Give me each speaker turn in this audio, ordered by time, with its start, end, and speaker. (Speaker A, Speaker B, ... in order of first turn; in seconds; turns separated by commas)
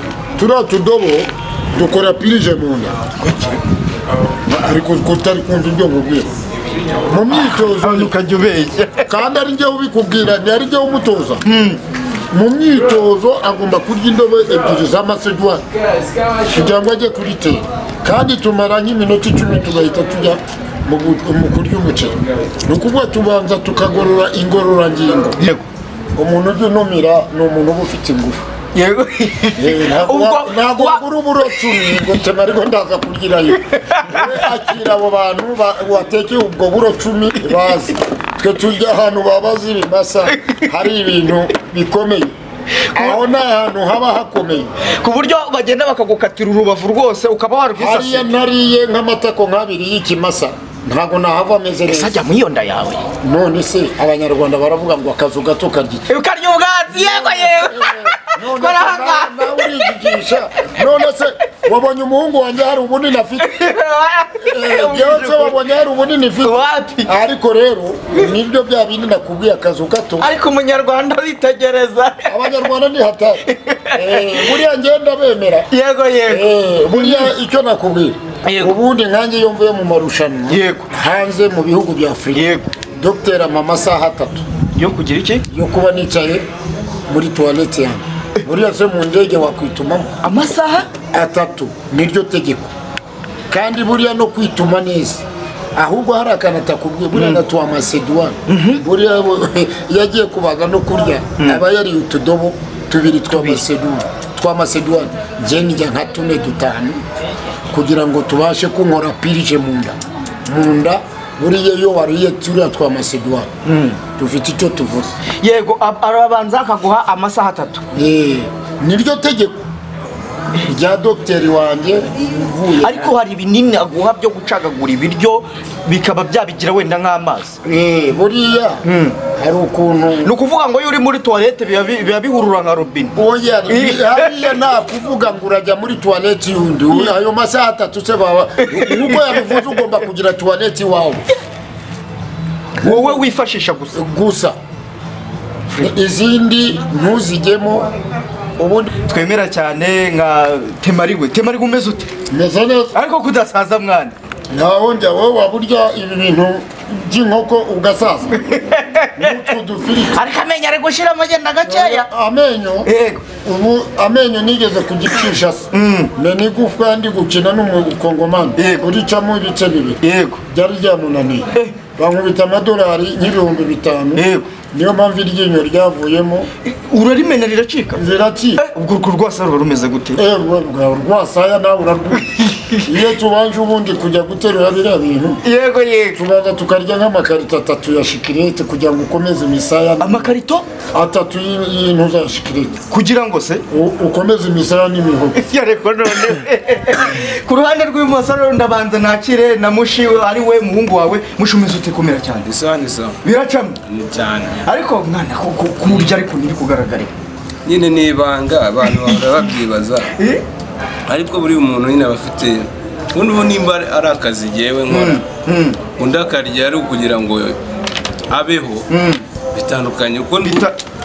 Speaker A: 0.4-3.0, Speaker B: 3.2-3.5, Speaker A: 4.4-6.3, Speaker A: 7.0-8.1, Speaker B: 7.3-9.1, Speaker A: 9.1-11.4, Speaker B: 11.4-11.8, Speaker A: 12.3-15.6, Speaker A: 16.4-25.4, Speaker B: 25.4-25.6, Speaker A: 26.1-28.4, Speaker B: 28.7-31.9, Speaker A: 29.6-42.3, Speaker B: 33.7-34.5, Speaker B: 40.3-40.7, Speaker B: 42.8-43.2, Speaker A: 42.9-44.7, Speaker B: 44.8-48.3, Speaker A: 47.8-52.2, Speaker B: 51.9-53.1, Speaker A: 53.2-56.1, Speaker B: 56.1-60.1, Speaker A: 56.9-63.6, Speaker B: 63.4-65.6, Speaker A: 64.4-70.3, Speaker B: 66.4-67.1, Speaker B: 70.2-72.5, Speaker A: 72.3-75.7, Speaker B: 73.5-74.6, Speaker B: 75.7-77.3, Speaker A: 76.2-84.4, Speaker B: 78.4-78.7, Speaker B: 80.5-80.9, Speaker B: 82.3-82.7, Speaker B: 84.7-85.4, Speaker A: 85.5-86.4, Speaker A: 87.1-90.2, Speaker B: 90.2-90.9, Speaker A: 91.1-92.7, Speaker A: 93.5-107.0, Speaker B: 97.1-97.4, Speaker B: 98.5-98.8, Speaker B: 103.3-103.6, Speaker A: 107.7-113.5, Speaker B: 113.6-114.0, Speaker A: 114.2-115.2, Speaker B: 115.4-117.8, Speaker A: 117.9-119.6, Speaker A: 120.5-123.1, Speaker B: 122.8-127.6, Speaker A: 127.6-130.3, Speaker B: 128.8-129.2, Speaker B: 130.2-133.1, Speaker A: 133.2-141.2, Speaker B: 133.7-134.6, Speaker B: 138.6-139.8, Speaker A: 142.8-143.2, Speaker B: 142.8-144.0, Speaker A: 143.9-144.6, Speaker A: 145.8-147.9, Speaker A: 148.6-148.9, Speaker B: 149.1-152.1, Speaker A: 152.3-152.9, Speaker B: 152.9-154.1, Speaker A: 154.5-158.4, Speaker B: 158.3-159.5, Speaker A: 159.2-160.2, Speaker B: 160.1-162.1, Speaker A: 161.6-162.9, Speaker B: 162.8-163.2, Speaker A: 163.4-176.5, Speaker B: 165.7-166.1, Speaker B: 168.6-168.9, Speaker B: 170.0-170.4, Speaker B: 174.1-174.5, Speaker B: 176.6-178.0, Speaker A: 177.9-178.6, Speaker B: 178.6-180.2, Speaker A: 180.2-185.4, Speaker B: 182.3-182.9, Speaker B: 185.4-186.2, Speaker A: 186.1-190.3, Speaker B: 190.0-190.7, Speaker A: 190.9-192.8, Speaker B: 192.9-193.6, Speaker A: 193.7-195.4, Speaker B: 195.3-202.5, Speaker C: 202.5-203.2, Speaker B: 203.2-203.8, Speaker C: 203.9-204.6, Speaker B: 204.6-207.1, Speaker C: 207.6-210.1, Speaker B: 208.8-209.4, Speaker B: 210.1-210.4, Speaker C: 211.1-215.2, Speaker B: 214.9-215.8, Speaker C: 216.0-217.6, Speaker C: 218.3-218.9, Speaker B: 218.9-219.2, Speaker C: 219.5-220.7, Speaker B: 220.4-220.8